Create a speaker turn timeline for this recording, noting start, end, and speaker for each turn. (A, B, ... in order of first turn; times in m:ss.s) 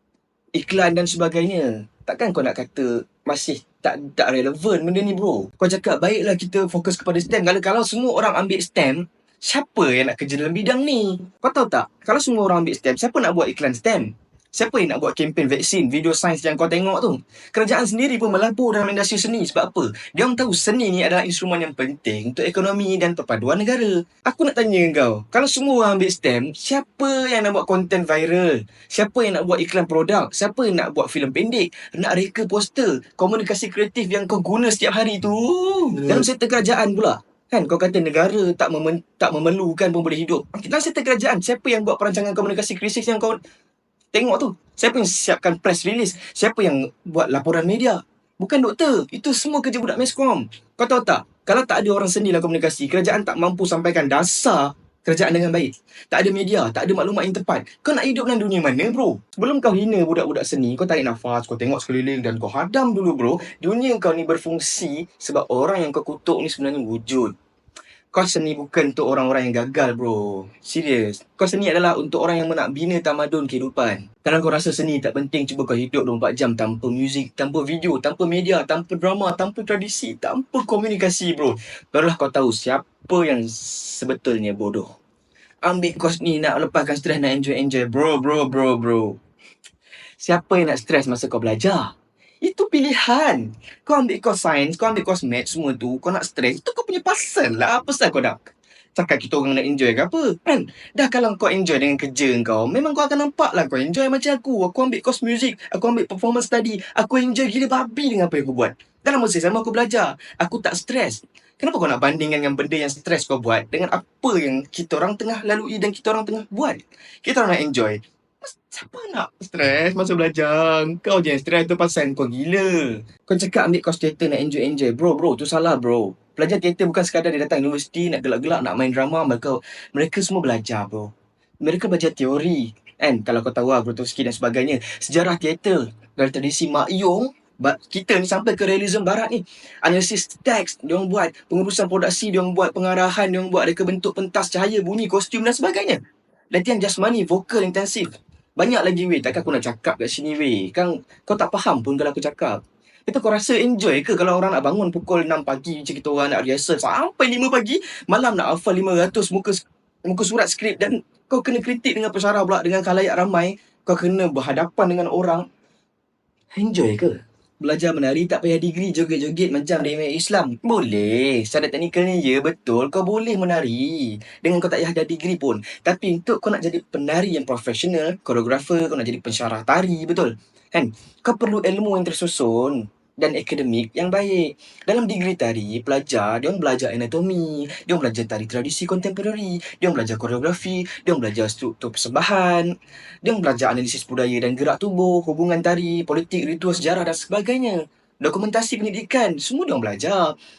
0:00.6-0:43.4 A
0:44.1-1:07.3 A
1:08.1-1:24.9 A
1:25.6-1:29.2 A
1:30.2-2:11.1 A
2:11.6-2:26.0 A
2:26.5-2:45.4 A
2:46.6-3:12.7 A
3:13.2-3:20.3 A